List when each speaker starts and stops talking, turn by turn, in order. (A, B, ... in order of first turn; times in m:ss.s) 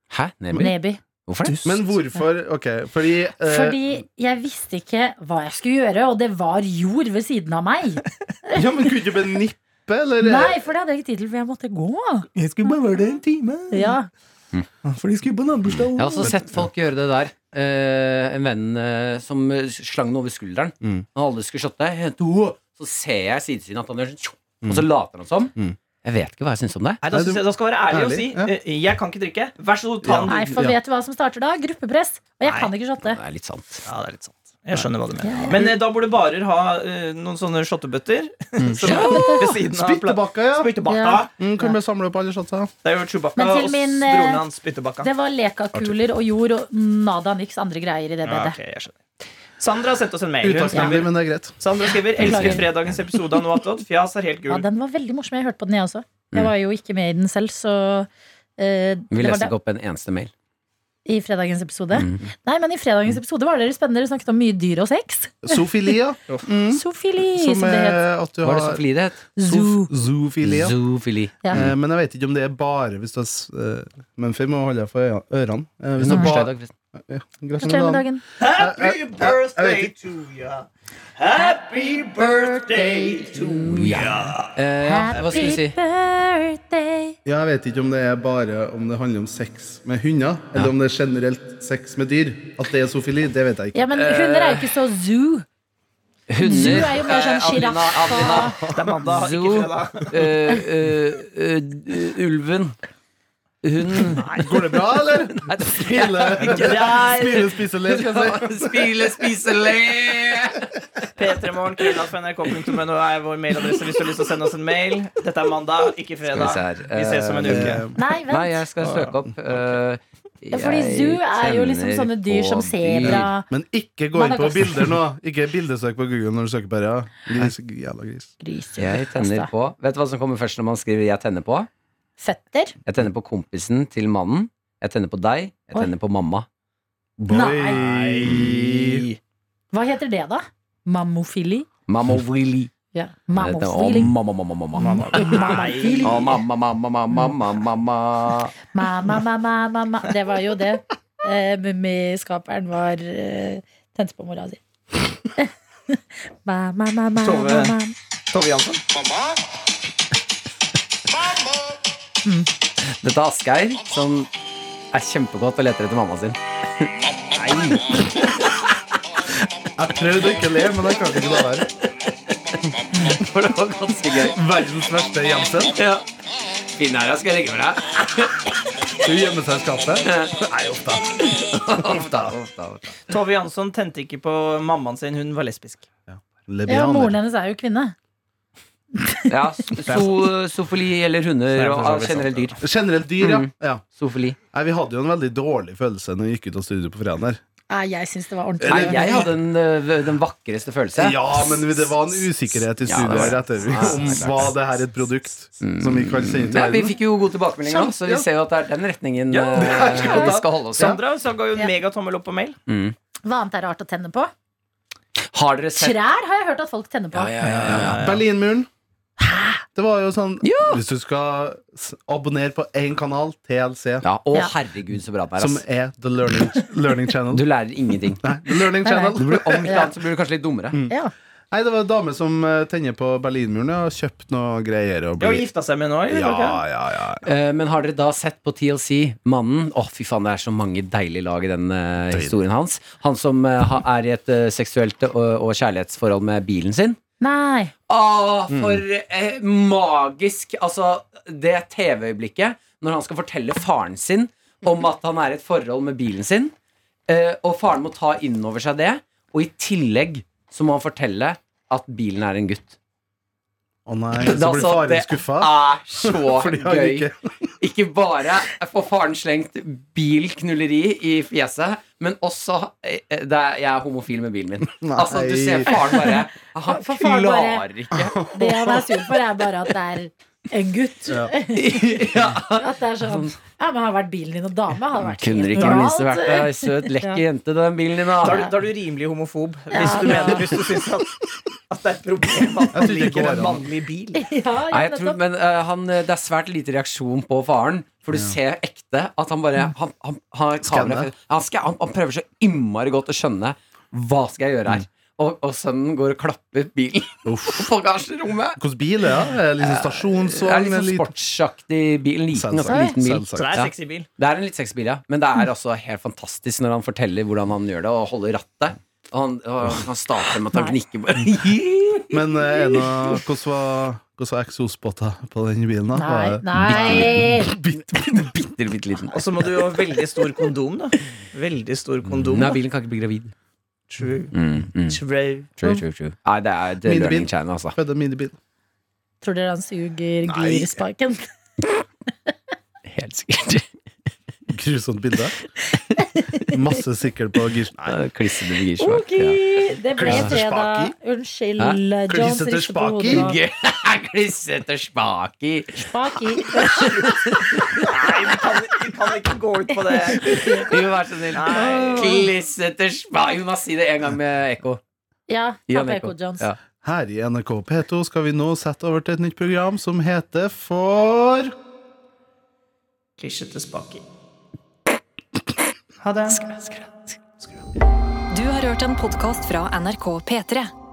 0:00.1-0:01.7 A
0:00.5-0:01.0 B
0:01.6-0:04.0 C
0:03.4-0:08.9 B
0:08.5-0:10.6 C
0:10.2-0:12.3 B
0:12.3-0:14.0 D
0:13.7-0:14.1 B
0:14.8-0:16.3 D
0:15.9-0:27.0 A
0:16.2-0:16.7 C
0:27.0-0:30.5 D
0:27.1-0:28.5 C
0:30.0-0:30.8 C
0:30.3-0:33.2 B
0:32.4-0:32.7 D
0:33.0-0:33.8 A
0:33.8-0:41.3 D
0:35.2-0:35.7 B
0:38.6-0:39.1 C
0:38.8-0:39.6 B
0:39.7-0:40.7 C
0:40.8-0:41.8 B
0:41.4-0:42.7 C
0:42.8-0:45.1 D
0:43.4-0:44.4 B
0:45.0-0:48.6 B
0:48.2-0:49.0 D
0:49.6-0:54.6 D
0:50.4-0:51.6 C
0:50.7-0:50.9 B
0:52.1-0:52.7 B
0:52.2-0:52.9 A
0:54.5-0:59.5 B
0:59.1-1:00.3 A
1:01.0-1:05.6 B
1:01.9-1:02.3 A
1:05.4-1:08.8 C
1:06.7-1:08.0 B
1:08.4-1:09.2 A
1:09.4-1:09.9 B
1:09.4-1:10.8 C
1:10.4-1:11.7 A
1:11.5-1:16.5 C
1:16.0-1:16.7 A
1:16.1-1:16.4 B
1:17.1-1:19.9 C
1:17.6-1:18.2 B
1:18.4-1:24.5 D
1:22.4-1:23.4 B
1:23.4-1:25.8 A
1:24.8-1:27.1 B
1:25.1-1:25.5 D
1:27.2-1:33.9 C
1:33.7-1:35.4 B
1:33.9-1:34.8 A
1:36.3-1:42.8 A
1:36.4-1:38.6 B
1:38.7-1:40.3 D
1:43.6-1:51.3 A
1:44.4-1:49.1 C
1:46.4-1:47.4 D
1:51.2-1:57.8 D
1:53.6-1:54.2 A
1:56.2-2:03.3 A
1:57.4-1:58.0 C
1:57.9-1:58.6 B
1:58.8-1:59.1 D
2:00.5-2:03.5 B
2:03.0-2:08.3 C
2:04.1-2:04.9 B
2:08.4-2:09.5 B
2:08.8-2:11.7 A
2:12.2-2:12.8 B
2:12.8-2:16.4 A
2:17.2-2:19.0 C
2:17.3-2:17.8 B
2:17.3-2:19.2 D
2:19.7-2:21.7 B
2:21.9-2:22.7 A
2:22.9-2:24.1 B
2:23.3-2:28.6 A
2:24.7-2:26.4 D
2:24.8-2:26.3 B
2:28.7-2:34.6 B
2:35.4-2:37.9 B
2:37.2-2:37.7 D
2:38.3-2:38.8 D
2:43.0-2:44.3 A
2:44.9-2:46.9 A
2:47.4-2:47.8 D
2:49.8-2:51.7 C
2:52.0-2:54.4 A
2:54.3-2:55.8 C
2:55.8-2:56.0 A
2:56.7-2:58.4 A
2:59.0-3:01.2 C
3:00.0-3:00.4 A
3:01.2-3:03.0 A
3:01.8-3:02.3 C
3:03.1-3:05.9 D
3:06.1-3:07.2 C
3:06.6-3:07.9 B
3:08.9-3:09.3 B
3:09.3-3:12.6 A
3:11.5-3:12.5 D
3:12.6-3:13.8 C
3:13.2-3:14.4 A
3:14.5-3:17.4 C
3:17.7-3:19.2 B
3:18.6-3:21.3 A
3:18.6-3:19.3 C
3:21.0-3:27.0 C
3:22.6-3:24.9 A
3:23.8-3:24.4 D
3:25.6-3:31.0 A
3:27.6-3:28.2 C
3:29.3-3:32.6 D
3:29.8-3:30.4 B
3:32.7-3:32.9 A
3:33.2-3:34.3 B
3:35.3-3:36.0 A
3:35.7-3:37.3 B
3:37.1-3:38.1 A
3:37.4-3:38.2 D
3:37.7-3:38.7 C
3:39.2-3:39.6 B
3:39.7-3:44.0 C
3:40.4-3:40.8 A
3:44.0-3:45.6 A
3:45.4-3:47.4 C
3:47.3-3:48.4 A
3:48.2-3:49.8 C
3:48.8-3:49.9 B
3:49.2-3:50.8 A
3:51.5-3:55.4 C
3:55.2-3:56.6 D
3:56.1-3:57.3 C
3:57.2-4:07.0 A
4:02.1-4:02.4 C
4:07.2-4:07.7 B
4:07.9-4:16.5 A
4:08.5-4:08.8 C
4:17.1-4:22.8 A
4:23.8-4:27.2 C
4:24.2-4:27.1 A
4:27.6-4:38.7 A
4:34.6-4:35.9 C
4:35.7-4:37.7 B
4:38.0-4:39.0 C
4:38.3-4:47.2 B
4:41.1-4:41.3 C
4:41.5-4:43.3 A
4:45.2-4:48.5 A
4:48.2-4:54.2 D
4:49.7-4:50.5 B
4:49.8-4:50.6 A
4:52.7-4:53.7 C
4:54.1-4:55.2 B
4:54.7-5:08.6 A
4:58.1-4:58.4 C
5:00.6-5:01.1 C
5:07.2-5:07.7 C
5:08.6-5:11.1 C
5:09.2-5:22.7 A
5:12.3-5:13.5 C
5:12.6-5:13.0 B
5:13.3-5:14.1 D
5:20.5-5:20.8 B
5:22.1-5:28.5 C
5:25.9-5:27.6 B
5:26.5-5:27.2 A
5:28.1-5:29.4 A
5:29.1-5:32.6 D
5:32.0-5:33.3 A
5:33.9-5:34.3 D
5:34.3-5:35.0 A
5:34.9-5:35.8 D
5:35.6-5:37.7 A
5:36.8-5:38.4 C
5:39.2-5:41.7 B
5:40.3-5:40.8 C
5:42.9-5:43.6 A
5:44.5-5:45.3 C
5:46.0-5:46.5 B
5:46.5-5:48.0 C
5:47.8-5:49.4 A
5:48.8-5:53.4 B
5:49.9-5:50.9 C
5:50.0-5:50.4 A
5:52.1-5:53.3 C
5:53.1-5:58.6 A
5:55.8-5:57.0 B
5:56.8-6:00.8 D
5:59.8-6:00.8 B
6:00.3-6:04.8 A
6:01.3-6:02.3 D
6:01.4-6:02.3 B
6:05.3-6:06.5 B
6:05.7-6:06.6 A
6:06.8-6:11.5 C
6:13.2-6:14.0 D
6:16.0-6:16.4 D
6:16.3-6:16.6 E
6:18.3-6:20.7 E